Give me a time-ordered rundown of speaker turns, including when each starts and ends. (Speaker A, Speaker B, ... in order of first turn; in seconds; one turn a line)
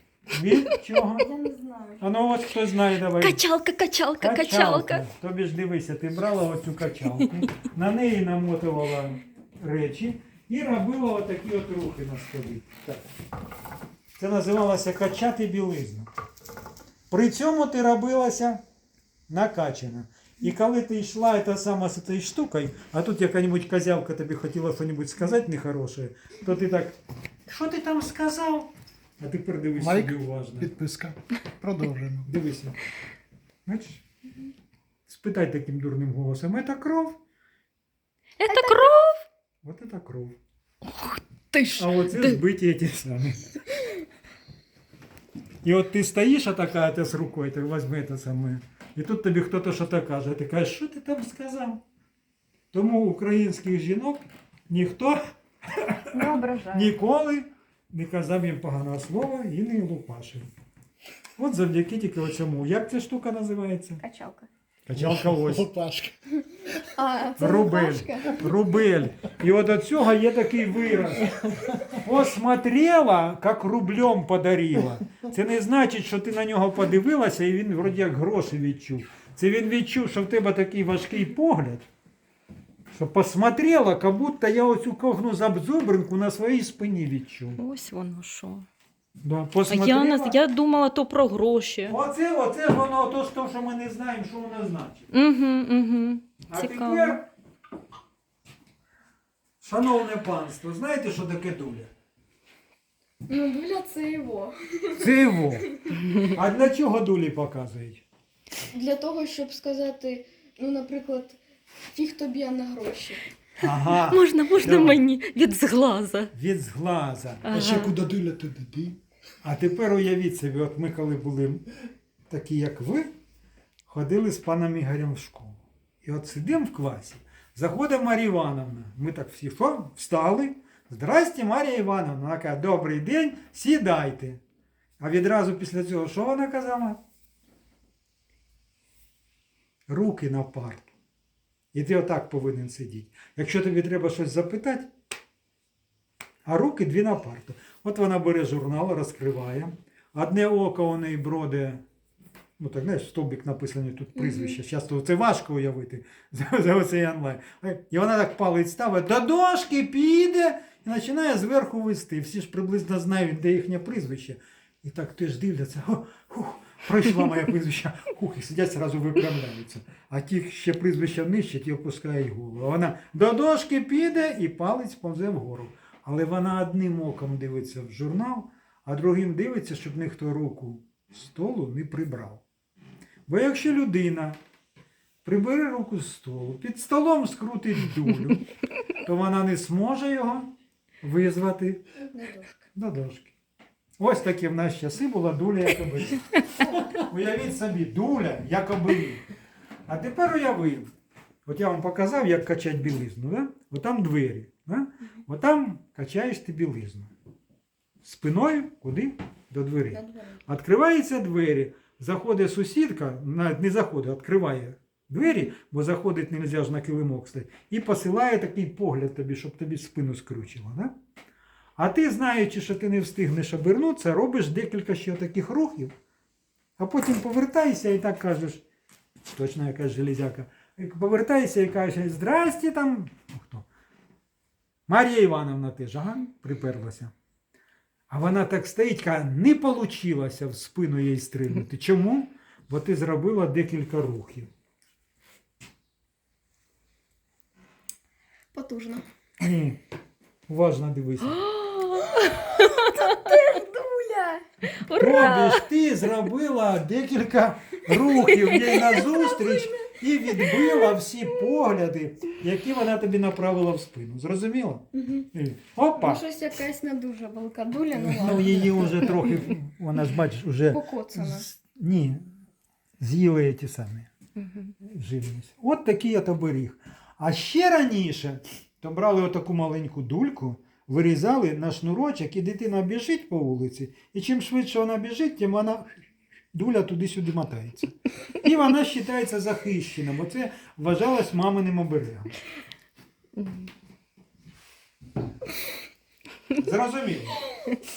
Speaker A: 0.3-1.3
Speaker B: 1.2-2.0
Speaker A: 2.0-3.4
Speaker C: 3.2-5.0
Speaker A: 4.2-13.1
Speaker A: 14.2-16.1
Speaker A: 17.1-18.6
Speaker A: 19.3-30.7
Speaker D: 29.8-32.3
Speaker A: 32.2-32.8
Speaker A: 33.6-34.0
Speaker A: 35.1-37.2
Speaker C: 38.4-39.2
Speaker B: 38.5-38.9
Speaker A: 39.6-40.4
Speaker C: 40.8-42.4
Speaker A: 41.7-43.5
Speaker A: 45.6-51.8
Speaker A: 52.7-55.2
Speaker A: 55.7-60.5
Speaker B: 56.1-56.9
Speaker A: 61.4-64.0
Speaker B: 64.0-64.5
Speaker A: 64.8-65.7
Speaker D: 65.0-66.2
Speaker B: 66.9-68.7
Speaker A: 67.4-81.8
Speaker D: 71.4-71.9
Speaker A: 82.9-87.6
Speaker C: 87.6-88.7
Speaker A: 89.2-90.4
Speaker C: 89.7-92.0
Speaker A: 91.8-95.1
Speaker C: 95.1-97.2
Speaker A: 96.5-97.2
Speaker A: 99.6-101.9
Speaker B: 103.3-105.8
Speaker A: 104.9-108.0
Speaker B: 108.7-111.4
Speaker B: 111.9-113.2
Speaker A: 113.6-115.0
Speaker C: 113.9-116.3
Speaker A: 116.3-117.6
Speaker C: 117.4-118.0
Speaker D: 117.5-119.0
Speaker A: 119.4-121.7
Speaker A: 122.3-123.1
Speaker A: 123.9-134.4
Speaker A: 135.0-137.0
Speaker A: 139.9-140.9
Speaker A: 141.7-144.9
Speaker A: 146.4-151.8
Speaker A: 152.6-182.4
Speaker B: 154.2-154.5
Speaker A: 183.3-184.4
Speaker A: 185.2-190.5
Speaker A: 191.0-191.8
Speaker B: 192.1-192.6
Speaker A: 192.7-193.3
Speaker A: 194.0-199.3
Speaker A: 199.9-200.9
Speaker A: 201.4-207.1
Speaker A: 208.0-220.9
Speaker B: 209.9-210.4
Speaker A: 221.8-225.9
Speaker A: 226.8-228.6
Speaker A: 229.3-233.7
Speaker A: 234.9-237.1
Speaker A: 238.1-244.5
Speaker B: 248.5-249.0
Speaker A: 249.4-249.8
Speaker A: 250.5-251.4
Speaker C: 251.3-253.2
Speaker B: 252.8-254.4
Speaker C: 254.7-255.7
Speaker A: 254.9-266.2
Speaker C: 258.2-259.0
Speaker B: 259.1-259.6
Speaker B: 264.9-265.3
Speaker B: 265.9-269.4
Speaker A: 268.1-272.3
Speaker D: 268.4-268.9
Speaker B: 270.7-271.4
Speaker A: 273.0-274.1
Speaker C: 274.4-274.7
Speaker A: 274.8-292.4
Speaker C: 293.4-293.7
Speaker A: 296.5-297.5